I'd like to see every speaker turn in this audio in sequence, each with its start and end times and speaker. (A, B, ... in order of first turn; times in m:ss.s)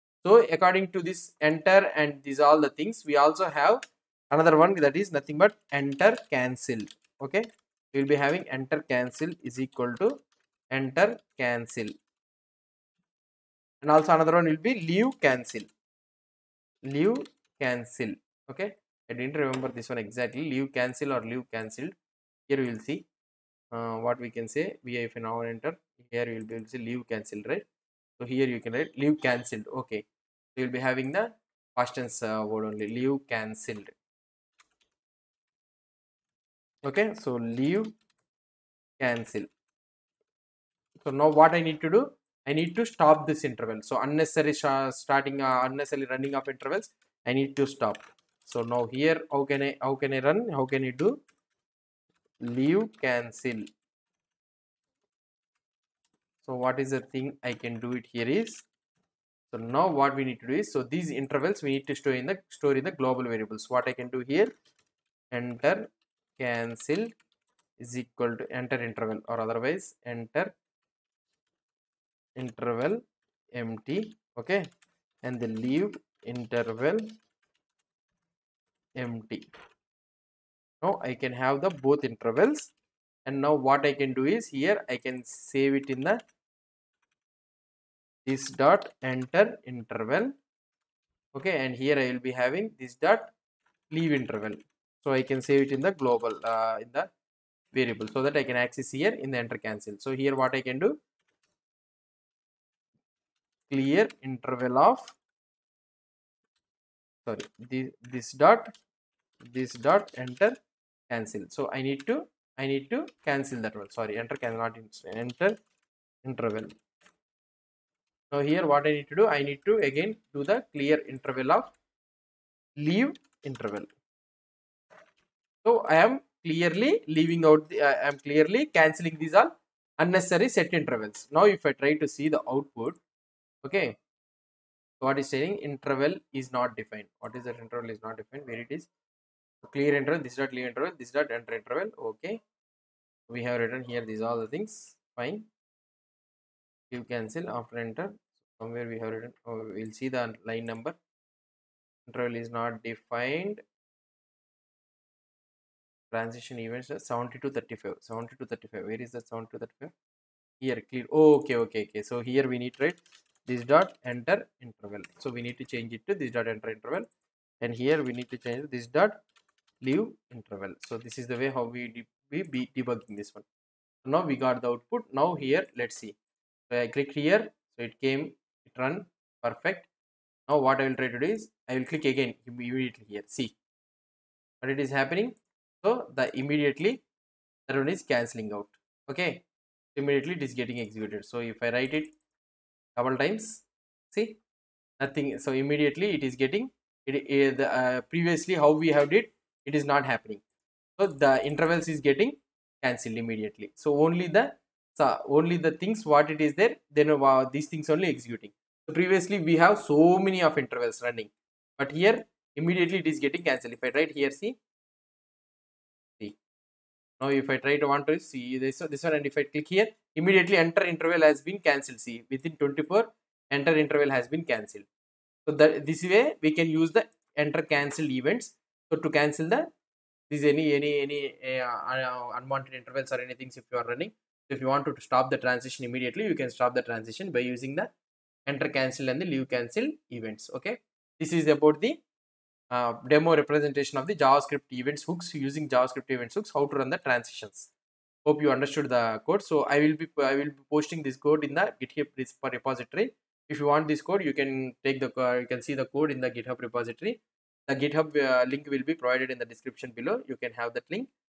0:00.2-0:10.2 A
0:10.7-0:11.9 A
0:13.8-0:15.7 A
0:16.8-0:21.9 A
0:22.5-0:23.0 A
0:23.7-0:27.7 A
0:28.2-0:30.0 A
0:30.5-0:33.9 A
0:36.8-0:37.9 A
0:39.0-0:39.5 A
0:41.0-0:51.1 A
0:52.4-0:53.6 A
0:56.4-0:58.6 A
0:59.5-1:04.5 A
1:05.3-1:07.1 A
1:07.8-1:10.5 A
1:12.4-1:13.0 A
1:13.5-1:14.6 A
1:15.2-1:17.1 A
1:19.0-1:19.5 A
1:20.8-1:22.7 A
1:23.2-1:26.2 A
1:28.2-1:30.4 A
1:31.3-1:33.3 A
1:33.9-1:37.1 A
1:37.7-1:41.0 A
1:43.7-1:45.2 A
1:47.2-1:48.7 A
1:49.4-1:50.5 A
1:51.1-1:55.6 A
1:56.2-1:56.7 A
1:58.3-2:01.7 A
2:02.8-2:03.9 A
2:05.6-2:13.0 A
2:13.6-2:14.0 A
2:15.0-2:18.9 A
2:19.6-2:22.4 A
2:23.3-2:25.4 A
2:26.9-2:31.0 A
2:32.1-2:33.6 A
2:36.1-2:39.9 A
2:40.6-2:47.0 A
2:47.6-2:49.2 A
2:49.8-2:53.4 A
2:54.0-2:56.2 A
2:56.7-2:59.9 A
3:00.5-3:03.6 A
3:04.6-3:07.0 A
3:07.7-3:09.4 A
3:09.9-3:12.1 A
3:13.0-3:14.4 A
3:15.0-3:20.4 A
3:21.0-3:34.6 A
3:37.2-3:44.9 A
3:45.4-3:49.7 A
3:50.3-3:57.9 A
3:58.4-4:02.0 A
4:02.7-4:07.7 A
4:08.2-4:21.1 A